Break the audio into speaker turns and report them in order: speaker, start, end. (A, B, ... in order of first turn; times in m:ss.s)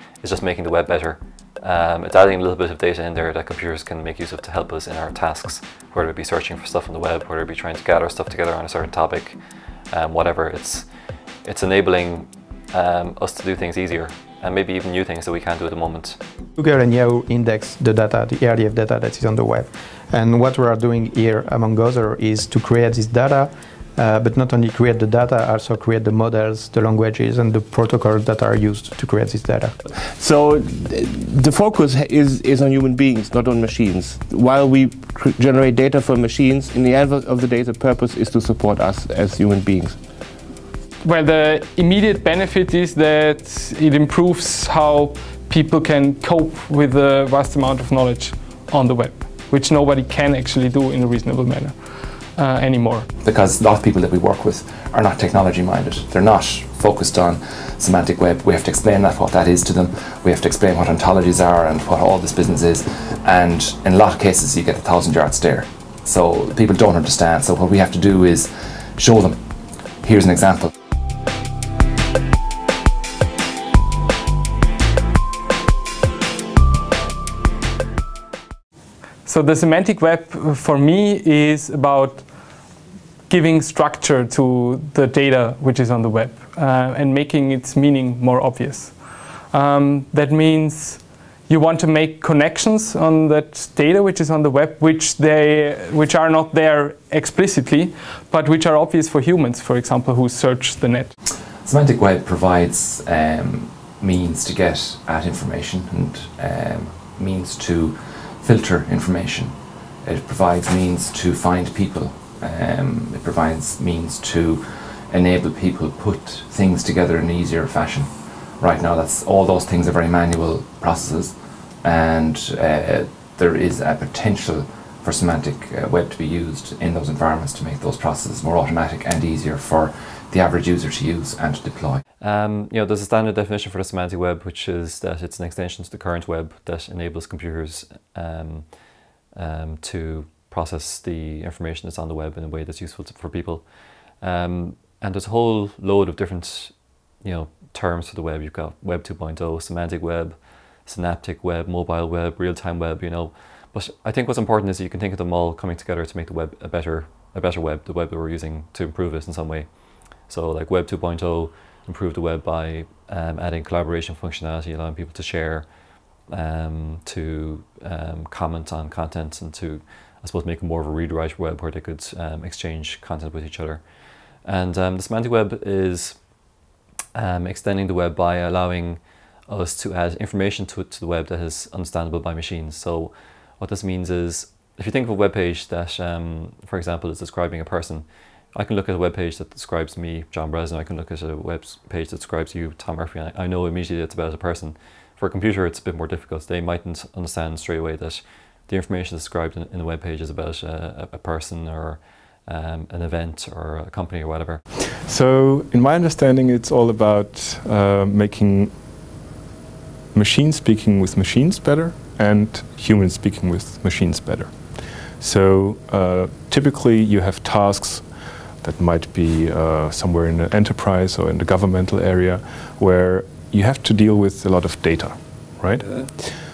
0:00.2-0:09.4 A
0:09.9-0:10.9 A
0:11.4-0:16.2 A
0:16.6-0:29.8 B
0:30.2-0:40.0 C
0:41.0-0:51.8 D
0:52.4-0:53.1 D
0:53.2-1:09.4 E
1:10.0-1:10.7 E
1:19.2-1:22.2 D
1:23.3-1:29.0 D
1:29.5-1:41.1 D
1:41.6-2:12.0 E
2:12.2-2:45.7 A
2:46.2-2:56.3 A
2:57.1-3:24.6 A
3:25.0-3:28.7 F
3:30.1-3:34.5 F
3:35.2-3:38.0 F
3:38.6-3:46.4 F